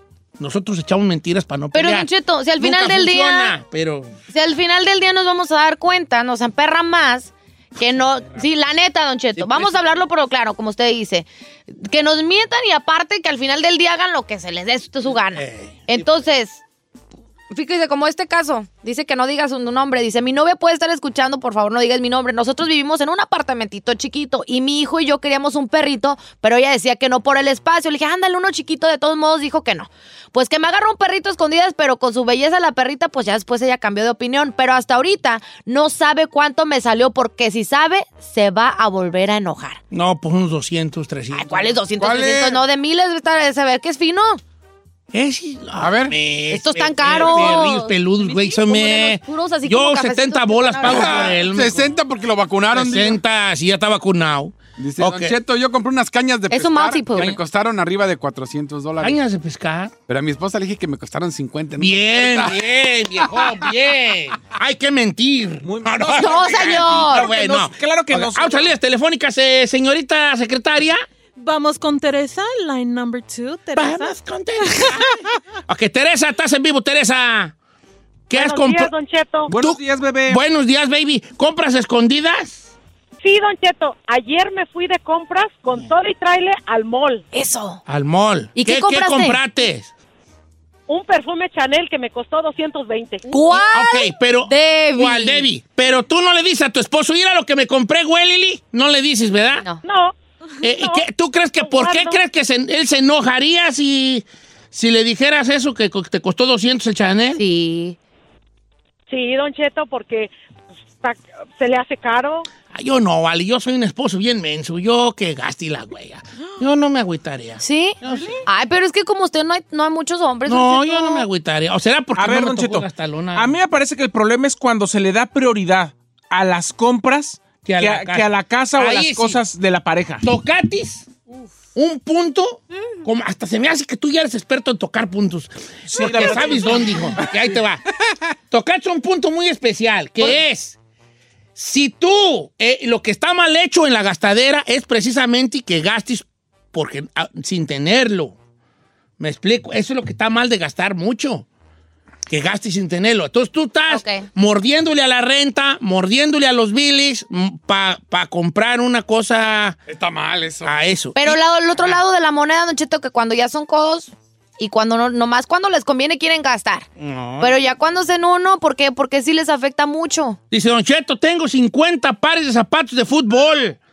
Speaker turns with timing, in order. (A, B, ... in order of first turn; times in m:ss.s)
0:00.4-0:04.1 A
0:01.7-0:03.6 B
0:04.3-0:16.6 B
0:07.9-0:08.4 A
0:09.4-0:09.8 A
0:15.3-0:16.1 A
0:17.5-0:39.8 B
0:39.9-0:41.8 A
0:41.3-0:44.4 B
0:42.0-0:42.6 C
0:45.1-0:51.9 A
0:45.8-0:46.2 C
0:46.5-0:51.4 B
0:50.8-0:53.2 C
0:52.7-0:55.4 A
0:54.8-0:59.2 C
0:56.5-0:57.4 B
0:59.0-0:59.9 A
1:00.1-1:02.7 C
1:01.8-1:11.1 A
1:05.6-1:08.7 D
1:06.2-1:07.3 B
1:11.4-1:14.2 E
1:13.7-1:17.5 A
1:14.7-1:15.0 E
1:18.3-1:18.9 A
1:18.3-1:19.5 F
1:19.5-1:20.4 D
1:19.5-1:22.7 A
1:23.2-1:27.2 F
1:27.3-1:27.8 B
1:27.9-1:29.9 A
1:28.6-1:29.4 B
1:30.9-1:33.6 F
1:33.3-1:35.5 B
1:33.7-1:39.6 A
1:39.8-1:40.2 F
1:40.6-1:47.4 A
1:40.7-1:41.0 F
1:41.6-1:42.2 F
1:47.4-1:48.0 B
1:49.1-1:50.3 F
1:51.0-1:52.5 F
1:52.7-1:58.4 A
1:57.6-2:01.3 B
2:00.5-2:03.5 A
2:02.2-2:10.2 D
2:07.6-2:09.4 A
2:10.2-2:11.1 A
2:11.8-2:17.8 A
2:15.9-2:17.0 D
2:18.5-2:20.8 A
2:21.6-2:28.4 A
2:29.2-2:31.5 A
2:32.3-2:39.8 A
2:33.9-2:34.3 B
2:39.9-2:40.8 C
2:40.6-2:41.4 A
2:41.2-2:46.9 B
2:47.0-2:47.6 A
2:47.4-2:50.4 B
2:50.5-2:53.8 A